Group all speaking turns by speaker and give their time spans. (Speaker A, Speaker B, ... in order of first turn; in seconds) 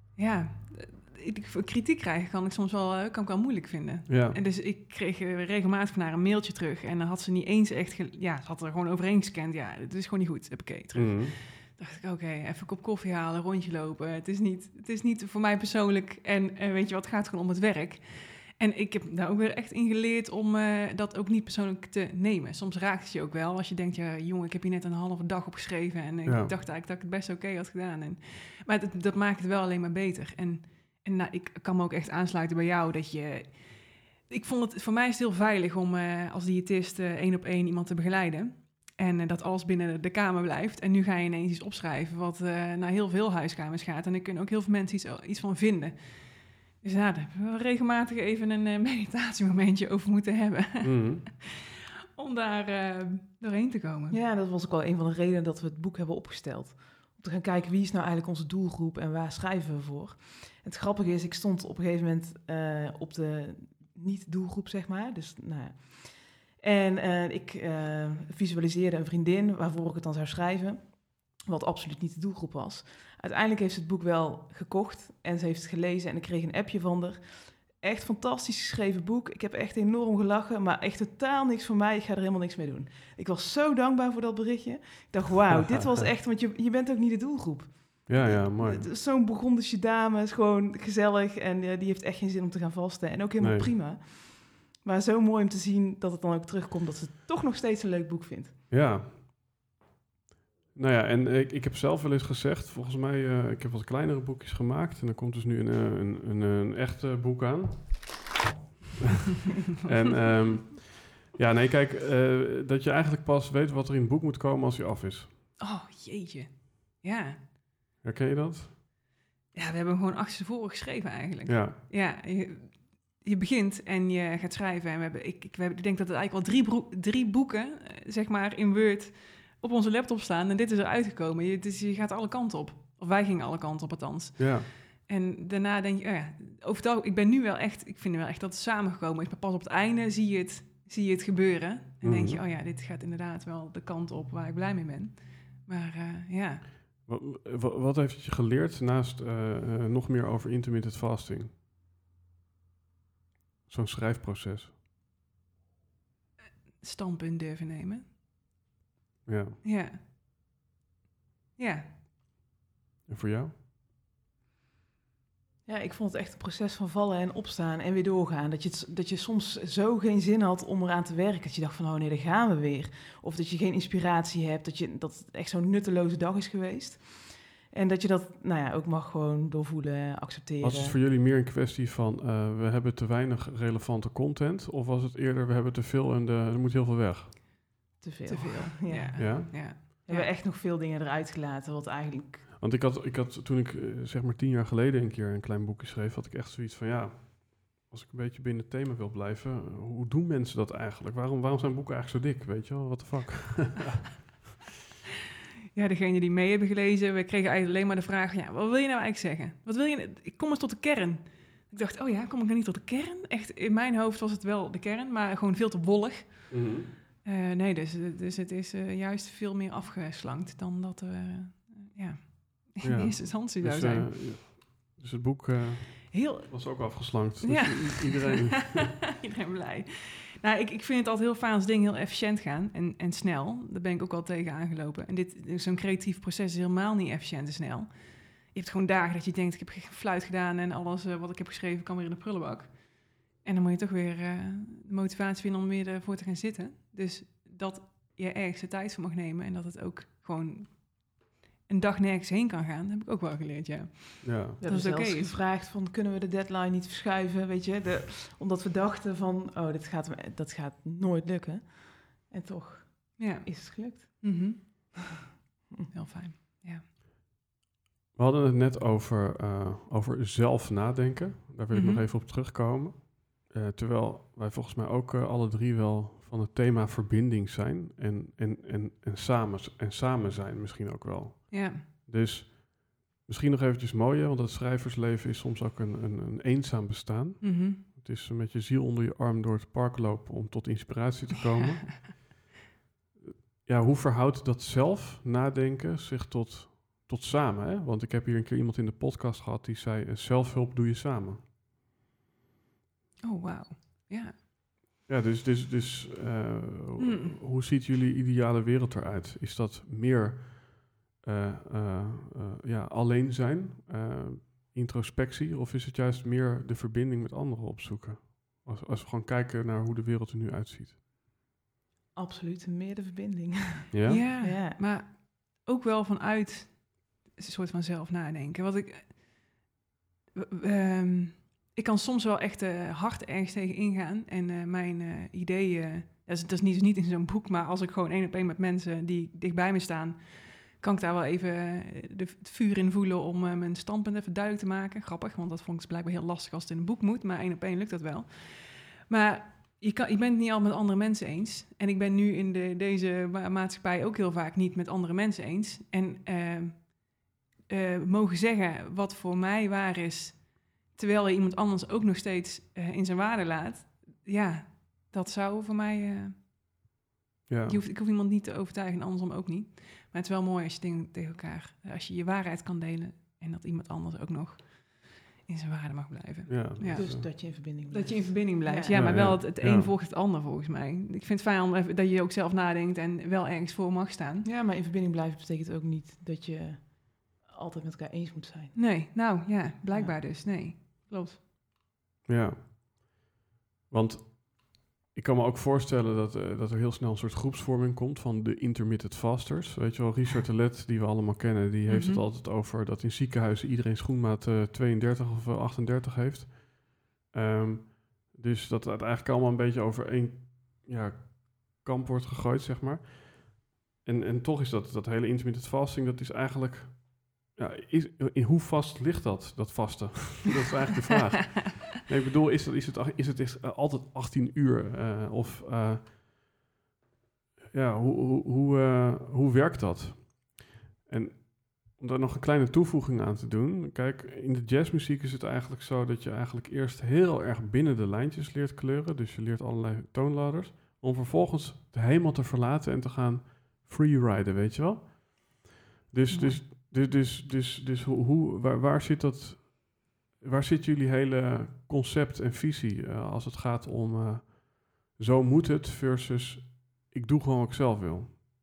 Speaker A: 0.1-54.2, 115.6-117.4, 119.5-146.7, 156.7-158.1, 159.6-160.0, 161.6-161.9, 188.3-190.3, 205.7-224.1, 226.1-255.4, 263.2-265.1, 265.9-266.8, 271.7-272.0, 281.5-281.8, 287.4-287.8, 303.2-304.3, 307.0-307.4, 324.1-329.6, 330.4-366.3, 367.7-384.4, 388.7-391.4, 401.9-402.2, 446.3-446.6
Speaker B: 4.1-4.4, 10.9-11.3, 26.2-26.5, 50.8-51.2, 88.1-88.8, 93.4-93.7, 98.7-99.2, 100.7-108.3, 109.8-115.3, 118.0-118.8, 121.4-121.8, 134.4-134.7, 142.0-142.4, 147.1-151.5, 153.7-154.7, 159.2-159.6, 163.1-163.5, 180.6-187.5, 189.2-189.6, 192.6-204.0, 216.5-216.9, 222.8-229.0, 254.2-254.6, 268.1-292.3, 293.2-301.4, 305.1-321.0, 323.9-324.2, 367.5-367.8, 376.5-377.3, 378.9-379.9, 392.2-393.2, 393.9-426.4, 427.7-458.3
Speaker C: 54.1-98.5, 165.6-181.0, 188.0-192.4, 254.6-264.7, 322.1-324.8, 376.9-379.2, 384.4-388.8, 389.9-390.2